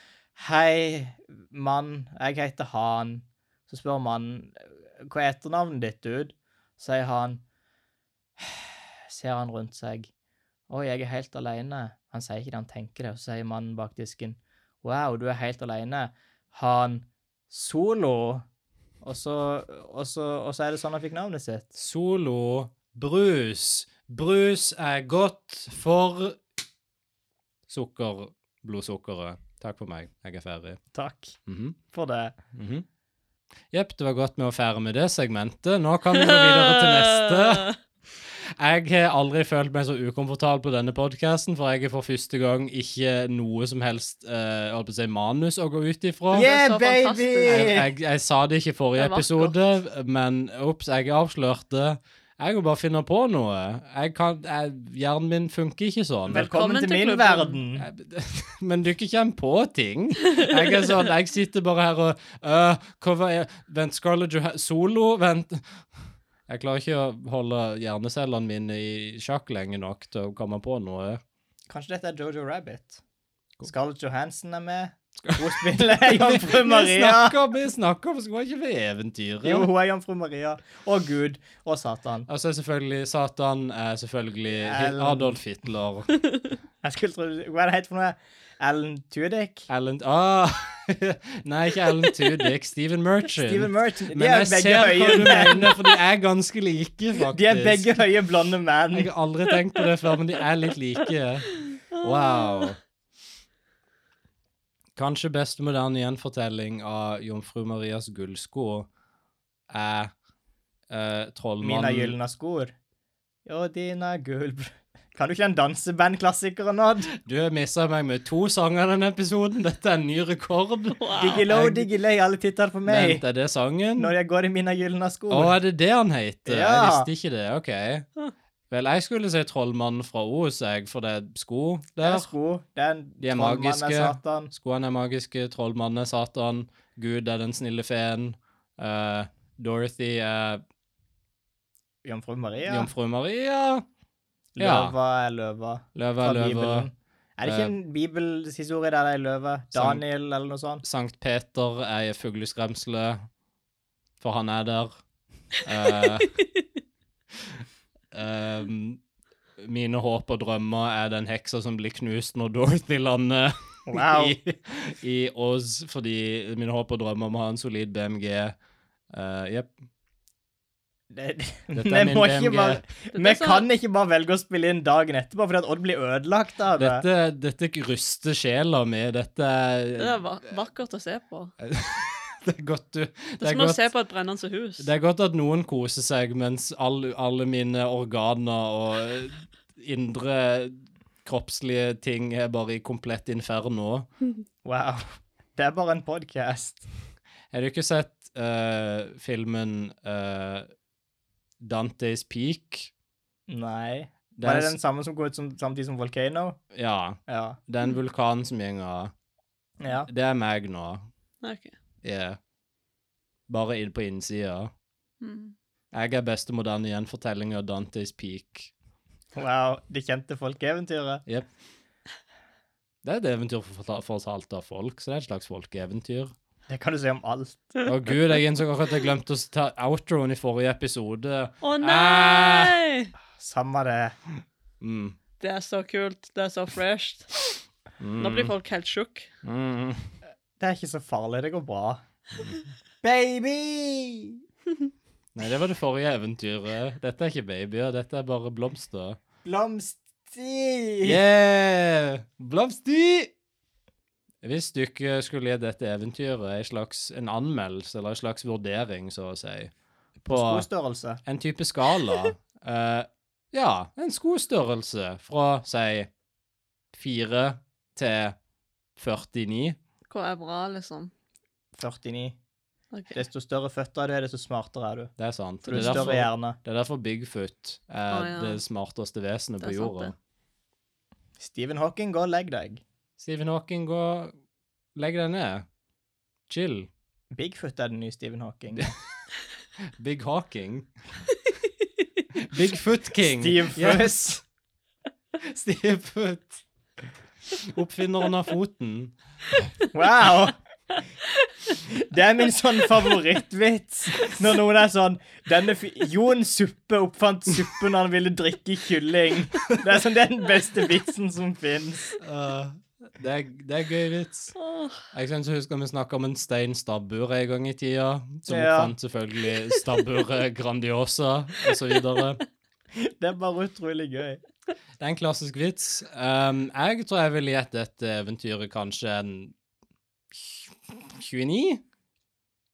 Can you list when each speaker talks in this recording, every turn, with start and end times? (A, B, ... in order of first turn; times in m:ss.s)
0:00.4-0:07.4 A
0:08.4-0:10.1 A
0:10.7-0:18.4 A
0:19.0-0:21.7 A
0:21.7-0:26.4 B
0:27.7-0:30.8 B
0:30.9-0:31.4 A
0:31.4-0:31.8 B
0:31.9-0:32.3 A
0:32.5-0:32.8 B
0:33.7-0:37.7 B
0:36.1-0:37.8 C
0:38.2-0:46.5 B
0:46.3-0:47.9 A
0:46.3-0:47.7 C
0:47.4-0:56.5 B
0:49.0-0:49.6 C
0:56.3-0:57.9 A
0:56.3-0:57.6 C
0:57.8-1:05.7 B
1:06.5-1:11.2 B
1:11.7-1:13.0 A
1:13.6-1:17.4 A
1:15.2-1:19.7 B
1:19.4-1:22.3 A
1:22.3-1:26.1 B
1:24.6-1:25.4 A
1:26.8-1:29.7 A
1:29.7-1:37.9 B
1:33.3-1:35.7 A
1:37.3-1:39.1 A
1:38.9-1:42.8 B
1:41.9-1:42.7 C
1:45.0-1:48.9 B
1:49.7-1:50.1 B
1:50.9-1:52.1 B
1:51.6-1:52.7 A
1:53.4-1:57.1 A
1:57.1-2:01.9 B
2:01.0-2:01.4 C
2:01.2-2:03.2 A
2:02.8-2:04.1 B
2:04.0-2:05.6 A
2:05.3-2:08.1 B
2:06.4-2:07.1 A
2:08.7-2:12.3 B
2:12.0-2:14.5 A
2:13.2-2:20.6 B
2:22.0-2:22.9 A
2:22.6-2:23.8 B
2:24.6-2:30.8 A
2:24.6-2:24.9 B
2:25.9-2:26.9 B
2:27.4-2:27.7 B
2:29.7-2:30.0 B
2:30.8-2:33.3 B
2:34.2-2:34.9 B
2:35.6-2:36.3 B
2:38.1-2:39.0 B
2:39.6-2:48.5 B
2:43.9-2:44.4 A
2:49.1-2:49.7 B
2:51.1-2:57.0 A
2:51.7-2:52.8 B
2:53.1-2:53.6 C
2:56.8-3:00.2 B
3:00.0-3:01.5 C
3:01.6-3:03.8 B
3:03.4-3:04.9 C
3:04.8-3:14.1 B
3:14.6-3:16.9 A
3:17.5-3:20.7 B
3:21.6-3:22.9 B
3:23.5-3:26.6 A
3:24.4-3:24.8 B
3:26.7-3:29.1 B
3:27.3-3:27.6 A
3:29.8-3:30.1 A
3:30.1-3:31.1 B
3:31.4-3:31.7 C
3:32.0-3:32.4 B
3:33.5-3:34.7 B
3:35.2-3:35.5 C
3:35.9-3:38.7 B
3:39.3-3:41.2 A
3:43.0-3:46.3 B
3:46.7-3:47.8 A
3:47.8-3:52.7 B
3:51.6-3:53.1 C
3:53.4-3:54.1 A
3:54.8-3:55.2 B
3:55.4-3:57.6 C
3:58.0-3:58.5 B
3:58.2-3:59.3 C
3:59.4-4:00.1 B
4:00.6-4:02.0 A
4:03.0-4:04.4 A
4:05.3-4:09.2 B
4:09.4-4:11.2 A
4:11.0-4:13.3 B
4:14.4-4:20.6 B
4:20.3-4:21.2 A
4:21.2-4:26.1 B
4:26.9-4:28.4 B
4:29.0-4:29.8 B
4:30.1-4:31.1 C
4:31.8-4:32.4 A
4:32.9-4:33.2 C
4:33.1-4:35.1 A
4:35.2-4:40.1 B
4:35.6-4:36.6 A
4:35.7-4:36.1 C
4:38.1-4:38.6 C
4:39.6-4:40.1 C
4:41.4-4:42.8 A
4:43.2-4:44.3 B
4:44.9-4:45.6 B
4:46.5-4:46.9 B
4:47.3-4:48.9 A
4:50.0-4:50.9 B
4:52.3-4:54.4 B
4:53.2-4:54.4 A
4:55.4-4:56.6 B
4:57.5-4:59.1 B
4:59.9-5:00.5 A
5:01.8-5:12.2 A
5:12.2-5:14.5 B
5:14.6-5:15.0 C
5:15.1-5:22.4 B
5:18.5-5:18.9 A
5:22.9-5:24.4 A
5:25.0-5:29.5 B
5:30.3-5:31.8 B